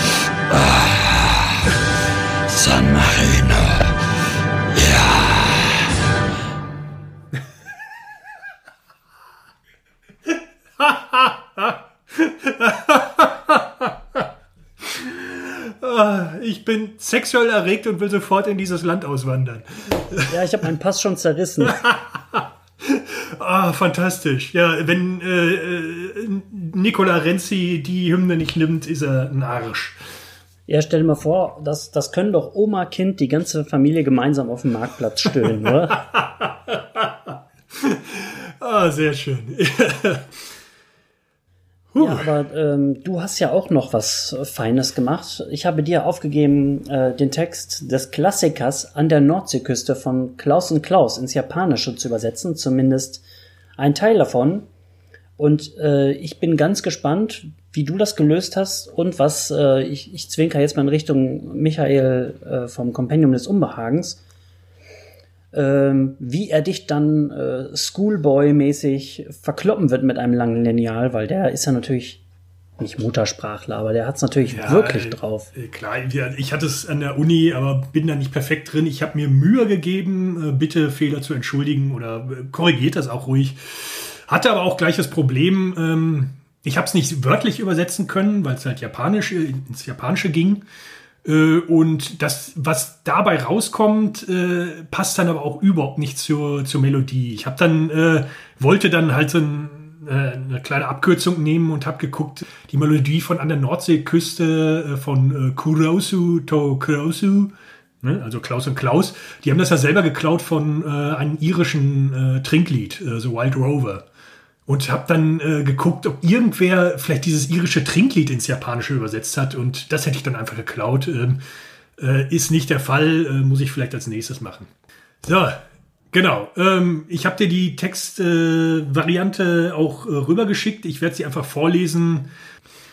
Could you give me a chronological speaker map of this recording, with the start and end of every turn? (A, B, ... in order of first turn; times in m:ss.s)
0:00.5-0:01.7 A
0:02.5-0:04.0 A
0:04.7-0:05.9 A
0:10.3-0:14.2 B
0:14.8-0:20.4 B
0:20.3-0:21.8 C
0:21.6-0:30.0 B
0:30.7-0:36.0 C
0:35.4-0:40.5 B
0:41.9-0:42.3 B
0:42.0-0:53.2 C
0:53.8-0:54.7 C
0:55.4-1:04.2 C
1:05.5-1:12.2 C
1:12.8-1:15.5 C
1:14.5-1:30.6 B
1:31.2-1:54.0 B
1:54.7-2:01.4 B
2:02.0-2:04.7 B
2:05.2-2:05.6 B
2:06.1-2:12.3 B